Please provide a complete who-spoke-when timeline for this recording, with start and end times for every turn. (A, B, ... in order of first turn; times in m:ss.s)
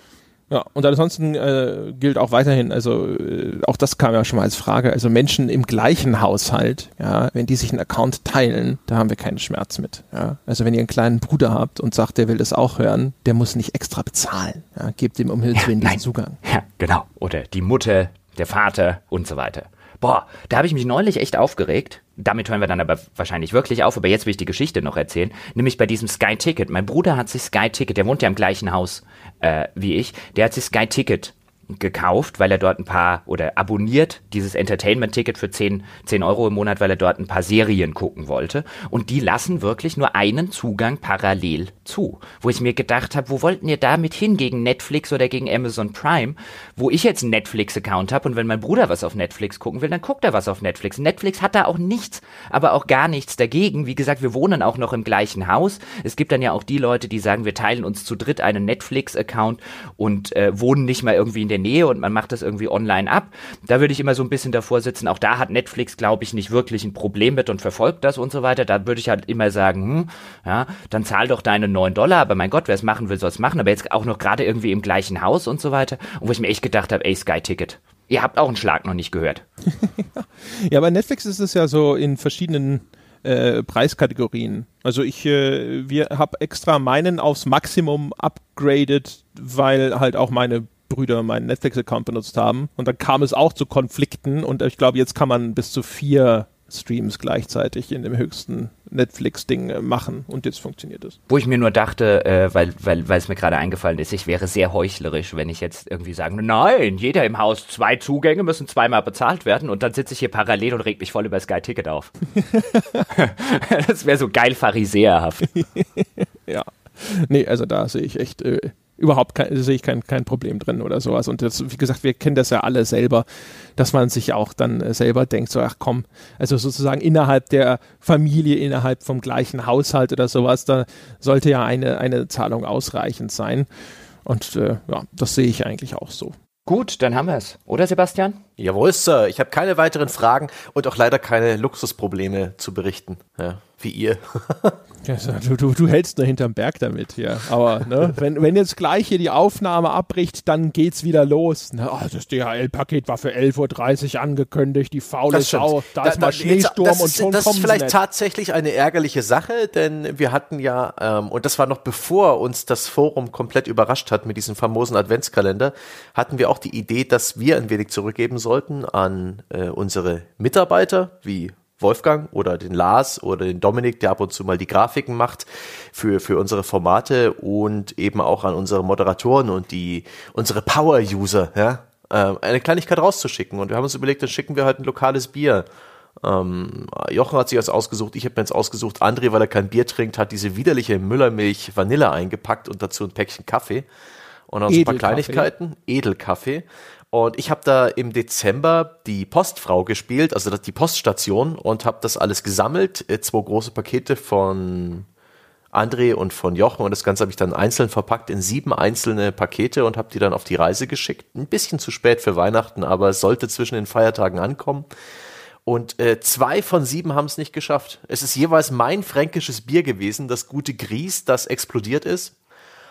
0:00.5-0:16.4 A
0:15.6-1:19.4 B
1:19.8-1:41.2 A
1:41.3-1:52.1 B
1:52.4-1:53.1 A
1:53.1-1:55.5 B
1:55.5-2:03.2 A
2:03.8-2:13.7 A
2:14.2-2:16.4 A
2:16.7-2:18.4 B
2:18.6-2:24.8 C
2:25.0-2:38.0 A
2:35.3-3:05.7 C
3:06.2-3:13.9 C
3:14.5-3:25.1 C
3:14.7-3:15.5 A
3:25.7-3:34.9 C
3:35.7-3:42.4 C